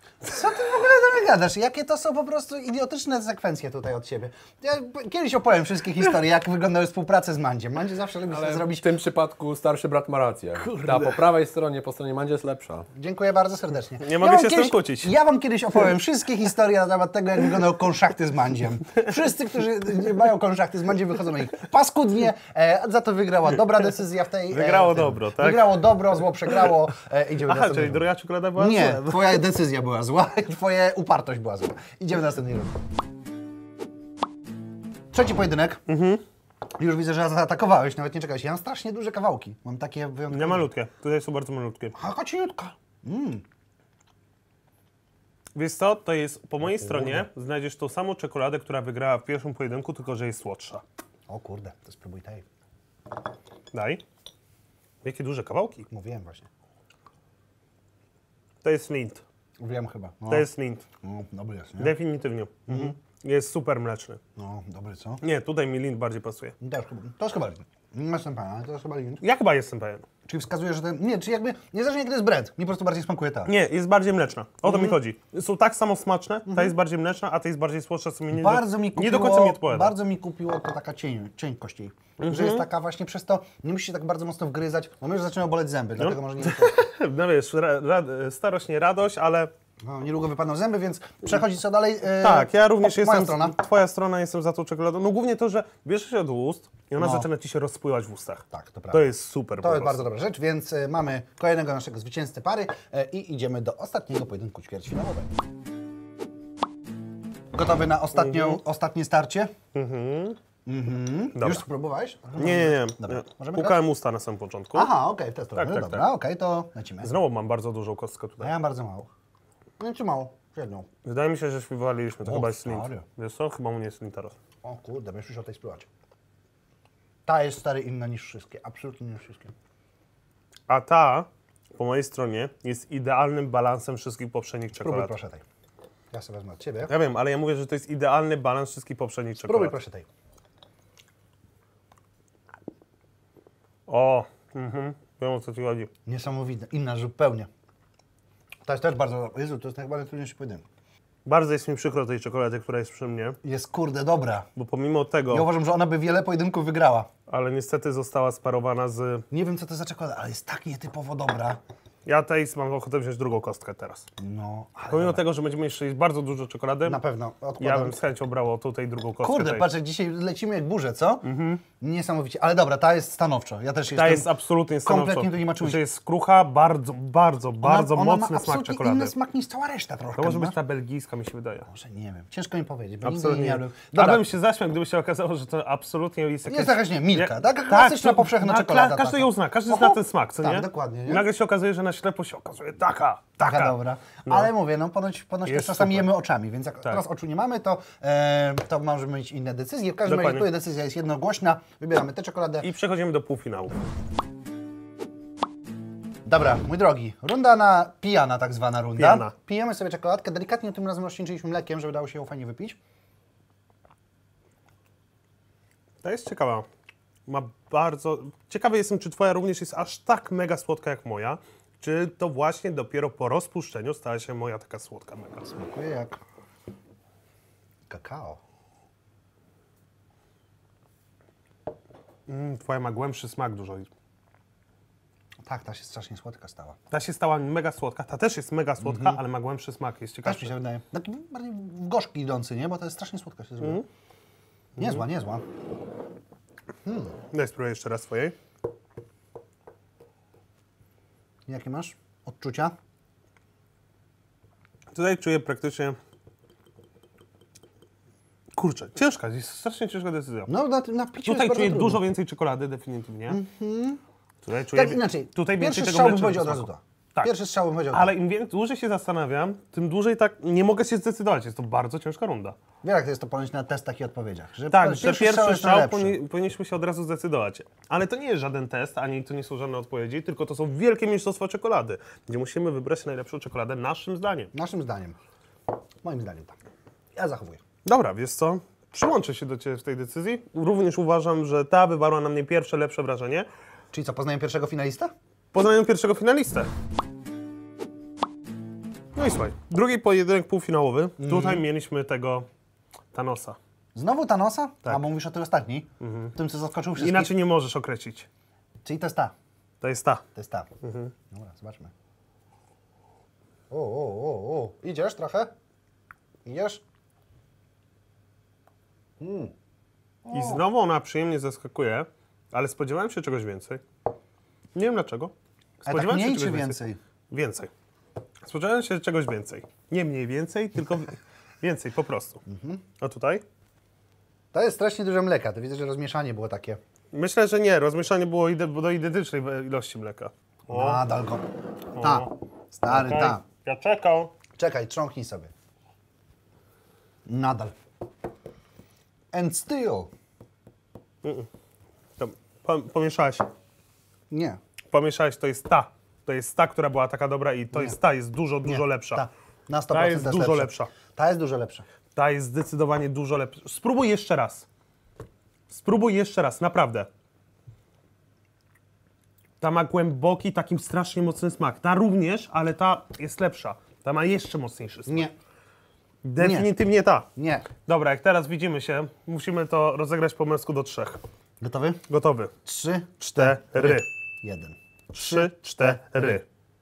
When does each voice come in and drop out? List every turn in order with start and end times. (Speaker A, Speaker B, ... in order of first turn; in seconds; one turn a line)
Speaker A: 0.2-9.0
Speaker B: 8.3-12.9
Speaker A: 10.8-11.2
Speaker A: 12.9-32.8
Speaker C: 14.0-15.2
Speaker C: 24.5-26.7
Speaker C: 27.4-29.4
Speaker A: 35.1-35.8
Speaker C: 35.9-36.2
Speaker A: 36.8-40.7
Speaker C: 40.3-41.9
Speaker A: 41.9-43.4
Speaker C: 45.5-50.8
Speaker A: 46.6-47.2
Speaker A: 51.3-52.4
Speaker C: 53.7-54.0
Speaker C: 55.0-55.9
Speaker A: 55.9-56.5
Speaker C: 58.6-59.2
Speaker A: 59.6-60.5
Speaker C: 60.3-60.8
Speaker A: 61.0-61.9
Speaker C: 61.8-64.2
Speaker A: 62.7-62.9
Speaker A: 64.3-65.2
Speaker C: 65.2-66.5
Speaker A: 66.6-69.2
Speaker C: 69.2-70.0
Speaker A: 70.2-73.5
Speaker C: 73.5-79.9
Speaker A: 74.6-75.0
Speaker A: 76.5-76.8
Speaker A: 78.3-86.7
Speaker C: 82.2-82.6
Speaker C: 86.0-89.5
Speaker A: 89.8-93.6
Speaker C: 92.2-100.0
Speaker A: 97.0-97.3
Speaker A: 98.5-99.1
Speaker A: 99.6-105.3
Speaker A: 107.5-109.5
Speaker C: 108.2-108.6
Speaker C: 109.7-110.4
Speaker A: 110.7-113.8
Speaker C: 111.3-111.6
Speaker C: 112.4-114.9
Speaker A: 114.7-117.1
Speaker C: 115.5-116.0
Speaker C: 117.0-118.5
Speaker A: 118.4-119.1
Speaker A: 119.8-120.9
Speaker C: 121.0-124.3
Speaker A: 122.2-123.0
Speaker A: 124.6-125.9
Speaker A: 127.2-129.5
Speaker C: 130.7-135.1
Speaker A: 134.8-135.4
Speaker A: 136.1-136.9
Speaker C: 136.9-139.7
Speaker A: 139.4-140.1
Speaker C: 143.9-145.9
Speaker A: 146.1-147.5
Speaker A: 148.6-150.6
Speaker C: 151.2-153.4
Speaker A: 153.4-154.5
Speaker C: 154.5-155.5
Speaker A: 155.3-157.1
Speaker C: 157.3-159.2
Speaker A: 159.3-161.6
Speaker C: 162.0-164.1
Speaker A: 164.2-165.2
Speaker C: 164.9-167.0
Speaker A: 166.8-168.0
Speaker C: 167.6-169.7
Speaker A: 169.2-171.3
Speaker C: 171.2-171.6
Speaker A: 171.8-174.3
Speaker C: 173.9-179.1
Speaker A: 174.8-175.8
Speaker A: 177.6-180.6
Speaker C: 180.2-181.7
Speaker A: 181.7-184.3
Speaker C: 183.0-194.5
Speaker A: 186.5-191.2
Speaker A: 193.4-202.7
Speaker C: 195.4-196.1
Speaker C: 200.1-200.5
Speaker C: 202.6-203.8
Speaker A: 206.2-212.8
Speaker C: 209.0-209.3
Speaker C: 216.0-216.7
Speaker C: 217.3-225.5
Speaker A: 225.5-226.2
Speaker A: 227.9-228.4
Speaker C: 232.3-233.9
Speaker A: 235.4-236.8
Speaker C: 236.9-240.5
Speaker A: 238.8-239.2
Speaker A: 240.2-243.8
Speaker C: 243.6-243.8
Speaker A: 244.8-245.4
Speaker C: 244.8-245.0
Speaker A: 246.8-247.1
Speaker C: 247.3-248.3
Speaker A: 251.5-252.7
Speaker C: 254.9-256.0
Speaker C: 258.6-260.5
Speaker A: 260.5-262.0
Speaker C: 261.2-263.4
Speaker A: 263.3-264.0
Speaker C: 264.4-267.3
Speaker A: 264.7-268.1
Speaker C: 267.9-272.6
Speaker A: 272.8-276.2
Speaker C: 274.7-284.5
Speaker A: 284.5-285.1
Speaker A: 286.0-286.5
Speaker A: 287.1-287.6
Speaker C: 287.8-293.5
Speaker A: 293.9-295.1
Speaker C: 295.5-296.7
Speaker C: 299.1-302.5
Speaker A: 301.2-301.6
Speaker C: 303.1-303.6
Speaker A: 303.9-307.3
Speaker C: 306.0-306.3
Speaker C: 307.0-308.3
Speaker A: 308.8-309.3
Speaker C: 309.8-310.2
Speaker A: 310.3-310.7
Speaker C: 310.8-311.1
Speaker A: 311.3-311.9
Speaker A: 313.7-315.5
Speaker A: 316.4-316.8
Speaker A: 319.2-319.5
Speaker A: 320.2-320.6
Speaker C: 320.3-323.8
Speaker C: 324.7-326.8
Speaker A: 325.8-327.0
Speaker C: 327.3-327.7
Speaker C: 328.4-332.4
Speaker A: 332.4-332.8
Speaker C: 333.0-333.4
Speaker A: 334.5-336.8
Speaker C: 337.1-341.0
Speaker A: 340.7-343.4
Speaker C: 341.9-342.3
Speaker C: 342.9-344.3
Speaker A: 344.6-345.5
Speaker A: 347.3-347.7
Speaker A: 349.3-350.1
Speaker C: 351.2-351.5
Speaker C: 352.2-353.5
Speaker A: 354.3-354.6
Speaker C: 354.9-359.2
Speaker A: 357.7-358.0
Speaker A: 358.6-361.8
Speaker C: 359.9-360.9
Speaker C: 362.1-364.7
Speaker C: 365.7-367.1
Speaker C: 369.6-375.3
Speaker A: 375.1-375.3
Speaker C: 376.2-377.3
Speaker A: 376.4-376.8
Speaker A: 377.3-377.7
Speaker C: 377.8-381.2
Speaker A: 381.6-382.0
Speaker C: 382.1-382.5
Speaker A: 382.6-386.4
Speaker C: 383.2-384.1
Speaker C: 385.1-386.4